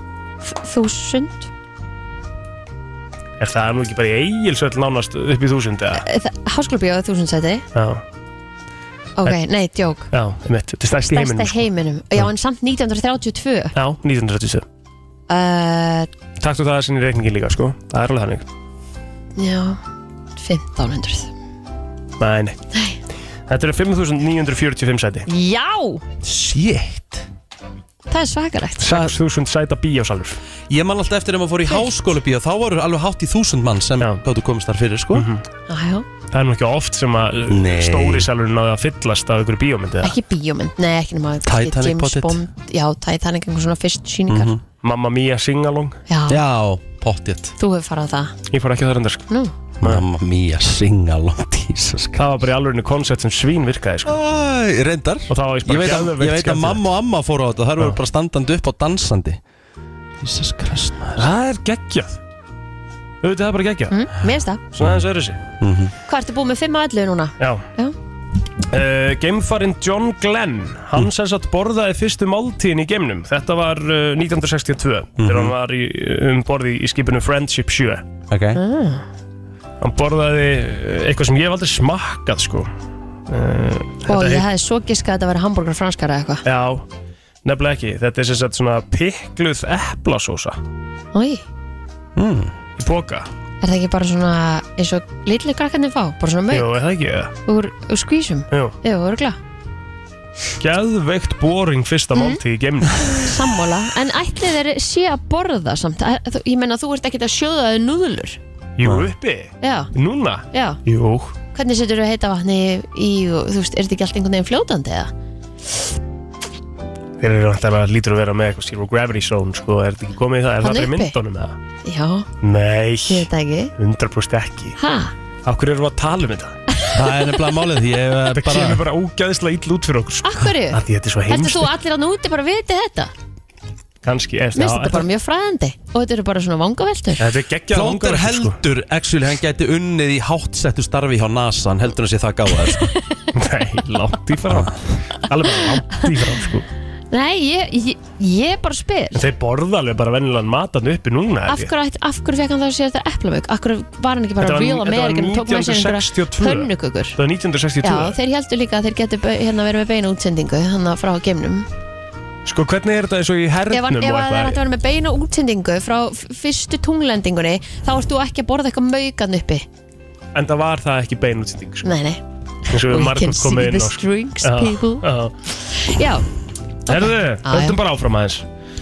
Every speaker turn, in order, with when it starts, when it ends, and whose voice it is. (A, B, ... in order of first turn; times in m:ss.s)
0:00.4-0:01.5 A
0:03.4-0:06.0 B
0:06.0-0:07.7 A
0:07.8-0:08.0 B
0:09.2-0:10.1 A
0:10.1-0:12.3 B
0:11.1-0:13.7 A
0:13.8-0:14.6 B
0:15.3-0:16.1 A
0:16.4-0:18.4 B
0:19.4-0:19.8 A
0:20.4-0:21.3 A
0:22.2-0:22.6 B
0:23.5-0:25.3 B
0:25.3-0:26.0 A
0:26.2-0:27.2 C
0:28.1-0:29.1 A
0:28.8-0:30.4 B
0:30.7-0:35.3 C
0:35.1-0:35.4 B
0:35.7-0:36.1 A
0:36.3-0:40.2 B
0:37.5-0:38.3 C
0:40.0-0:44.5 A
0:41.4-0:42.4 C
0:44.3-0:44.6 C
0:44.8-0:46.0 B
0:46.1-0:46.4 A
0:46.3-0:47.6 C
0:47.6-0:48.4 A
0:48.5-0:49.3 B
0:49.8-0:52.2 C
0:52.2-0:54.2 B
0:54.0-0:59.4 C
0:55.3-0:56.8 B
1:00.2-1:01.2 C
1:01.2-1:02.2 B
1:03.2-1:04.0 B
1:03.9-1:04.6 A
1:04.8-1:05.4 B
1:05.6-1:05.9 C
1:06.1-1:08.0 A
1:07.4-1:07.7 B
1:08.7-1:18.0 B
1:15.2-1:15.5 C
1:18.3-1:18.6 C
1:18.6-1:19.0 A
1:19.8-1:22.7 B
1:23.3-1:24.5 B
1:24.1-1:26.4 A
1:26.4-1:26.8 B
1:27.4-1:30.6 B
1:31.1-1:31.4 A
1:32.2-1:32.5 C
1:32.8-1:33.3 B
1:33.6-1:36.7 A
1:36.5-1:37.3 B
1:37.5-1:39.4 A
1:38.5-1:38.8 B
1:40.6-1:43.2 B
1:42.2-1:42.4 A
1:43.1-1:48.4 A
1:48.8-1:51.4 B
1:48.8-1:49.1 C
1:49.6-1:49.9 A
1:50.5-1:50.8 A
1:51.5-1:55.1 A
1:57.2-2:01.6 B
2:00.6-2:01.2 A
2:01.8-2:02.3 A
2:02.4-2:04.8 B
2:03.1-2:03.7 A
2:04.8-2:05.1 A
2:05.5-2:06.6 B
2:06.9-2:08.8 C
2:08.3-2:11.7 B
2:10.2-2:13.1 A
2:14.0-2:15.1 B
2:14.6-2:17.2 A
2:17.2-2:18.6 B
2:17.7-2:22.9 C
2:22.6-2:23.3 A
2:23.3-2:26.7 B
2:25.9-2:26.2 A
2:27.1-2:29.2 A
2:29.1-2:31.7 B
2:31.5-2:37.2 A
2:34.4-2:38.2 B
2:37.8-2:41.7 A
2:42.5-2:44.6 B
2:43.7-2:49.7 A
2:50.4-2:52.0 B
2:51.8-2:52.2 A
2:52.7-2:55.1 A
2:52.7-2:55.4 B
2:55.6-2:56.3 A
2:56.9-2:57.8 A
2:56.9-2:58.5 B